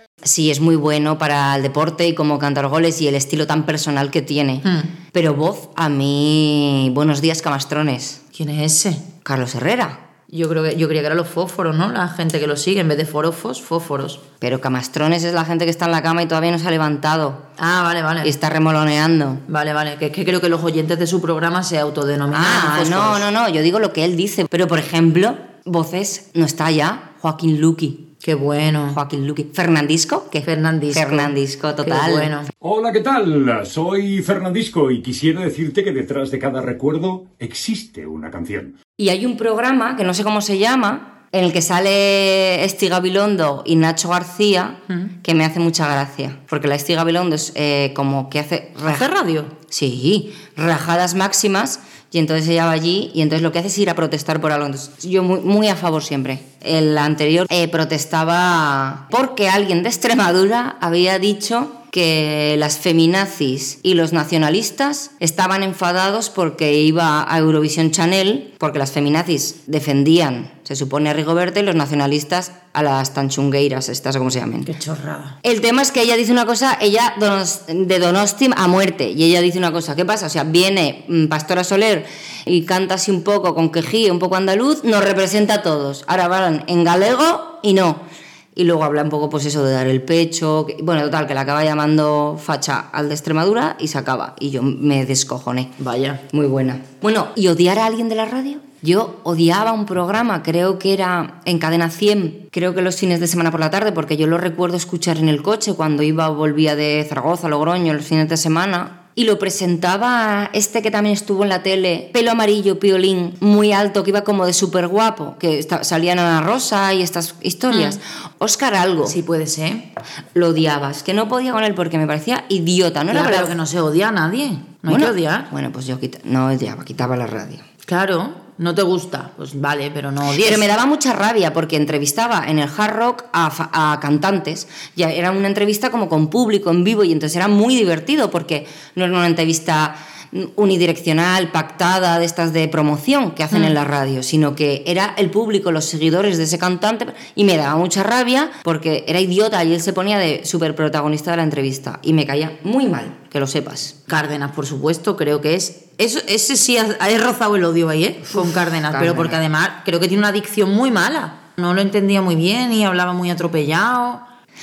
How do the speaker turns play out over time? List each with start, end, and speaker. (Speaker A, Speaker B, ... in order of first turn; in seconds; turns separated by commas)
Speaker A: 0.2-8.2, Speaker B: 4.6-4.9, Speaker B: 8.3-9.1, Speaker A: 9.2-10.0, Speaker B: 10.3-14.2, Speaker A: 14.4-17.4, Speaker B: 17.6-18.3, Speaker A: 18.2-19.4, Speaker B: 19.5-23.2, Speaker A: 22.3-28.1, Speaker B: 28.2-29.0, Speaker A: 28.9-32.3, Speaker B: 30.4-32.5, Speaker C: 32.6-38.8, Speaker A: 39.0-49.1, Speaker B: 48.9-49.5, Speaker A: 49.7-74.7, Speaker B: 74.6-75.3, Speaker A: 75.4-88.0, Speaker A: 88.5-95.7, Speaker B: 95.8-96.2, Speaker A: 96.3-119.2, Speaker B: 117.7-118.0, Speaker B: 119.0-119.9, Speaker A: 120.3-123.5, Speaker B: 123.1-125.5, Speaker A: 124.9-127.6, Speaker B: 127.9-130.7, Speaker A: 130.4-154.0, Speaker B: 154.1-164.2, Speaker A: 158.3-159.4